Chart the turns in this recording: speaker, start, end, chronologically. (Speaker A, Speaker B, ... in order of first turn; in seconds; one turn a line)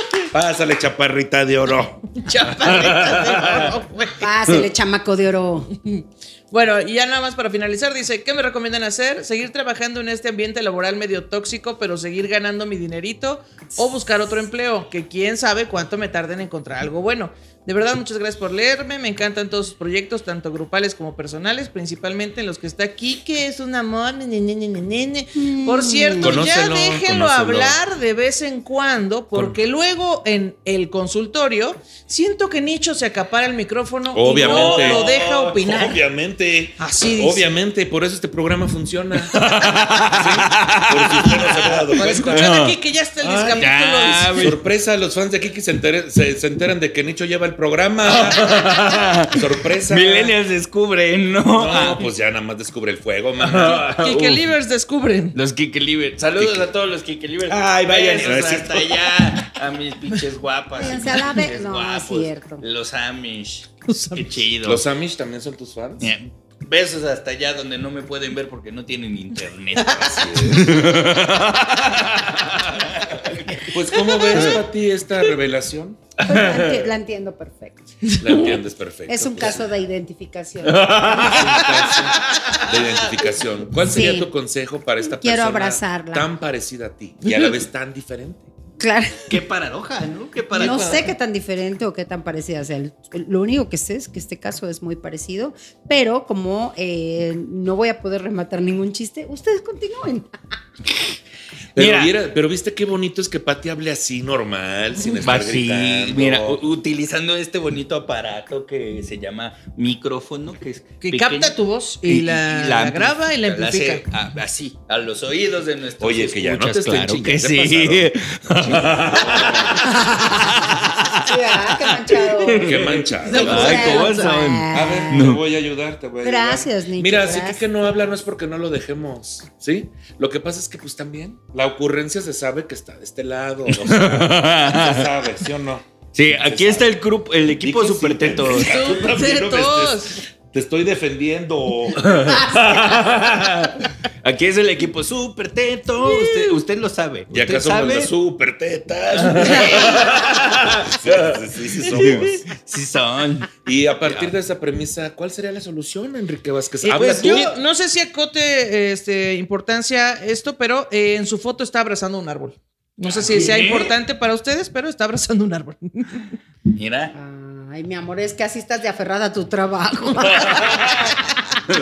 Speaker A: 0.3-2.1
Speaker B: 2.3-3.8
Speaker C: 2.4-4.3
Speaker A: 2.6-3.4
Speaker D: 4.2-5.7
Speaker C: 5.7-35.9
Speaker D: 25.4-26.5
Speaker A: 26.2-27.8
Speaker A: 34.1-35.1
Speaker B: 34.4-35.9
Speaker A: 35.6-39.5
Speaker C: 36.8-37.4
Speaker B: 39.3-42.7
Speaker A: 40.1-43.7
Speaker C: 42.0-44.5
Speaker B: 43.6-44.6
Speaker A: 44.4-48.7
Speaker B: 48.1-52.1
Speaker A: 49.3-50.4
Speaker A: 51.5-53.9
Speaker B: 53.4-54.5
Speaker C: 53.8-55.4
Speaker B: 55.3-64.8
Speaker A: 56.4-56.7
Speaker A: 57.5-59.1
Speaker D: 60.8-62.6
Speaker C: 63.9-64.4
Speaker A: 64.6-66.1
Speaker B: 66.0-73.7
Speaker A: 70.0-71.0
Speaker A: 73.7-76.1
Speaker C: 74.1-74.5
Speaker D: 76.2-78.5
Speaker B: 76.3-76.8
Speaker C: 78.0-78.5
Speaker A: 78.2-79.7
Speaker D: 79.1-81.6
Speaker B: 80.7-83.1
Speaker A: 81.2-88.5
Speaker D: 83.8-84.3
Speaker D: 85.0-86.3
Speaker D: 88.8-89.3
Speaker B: 89.3-91.1
Speaker D: 90.5-100.3
Speaker A: 101.8-106.6
Speaker B: 101.8-102.1
Speaker B: 105.2-125.4
Speaker C: 111.0-114.0
Speaker A: 116.0-120.0
Speaker D: 121.3-122.7
Speaker A: 122.5-124.1
Speaker C: 123.3-124.1
Speaker D: 123.3-125.3
Speaker A: 124.7-136.9
Speaker D: 126.2-128.1
Speaker B: 133.7-135.1
Speaker B: 136.2-138.9
Speaker A: 137.6-142.2
Speaker C: 138.6-140.1
Speaker B: 142.0-148.1
Speaker C: 146.1-146.3
Speaker A: 147.3-152.4
Speaker B: 149.2-154.3
Speaker C: 149.4-149.9
Speaker A: 153.7-157.5
Speaker C: 156.8-166.3
Speaker B: 156.9-157.6
Speaker B: 163.1-163.9
Speaker B: 166.8-167.1
Speaker D: 167.1-171.0
Speaker B: 170.3-171.2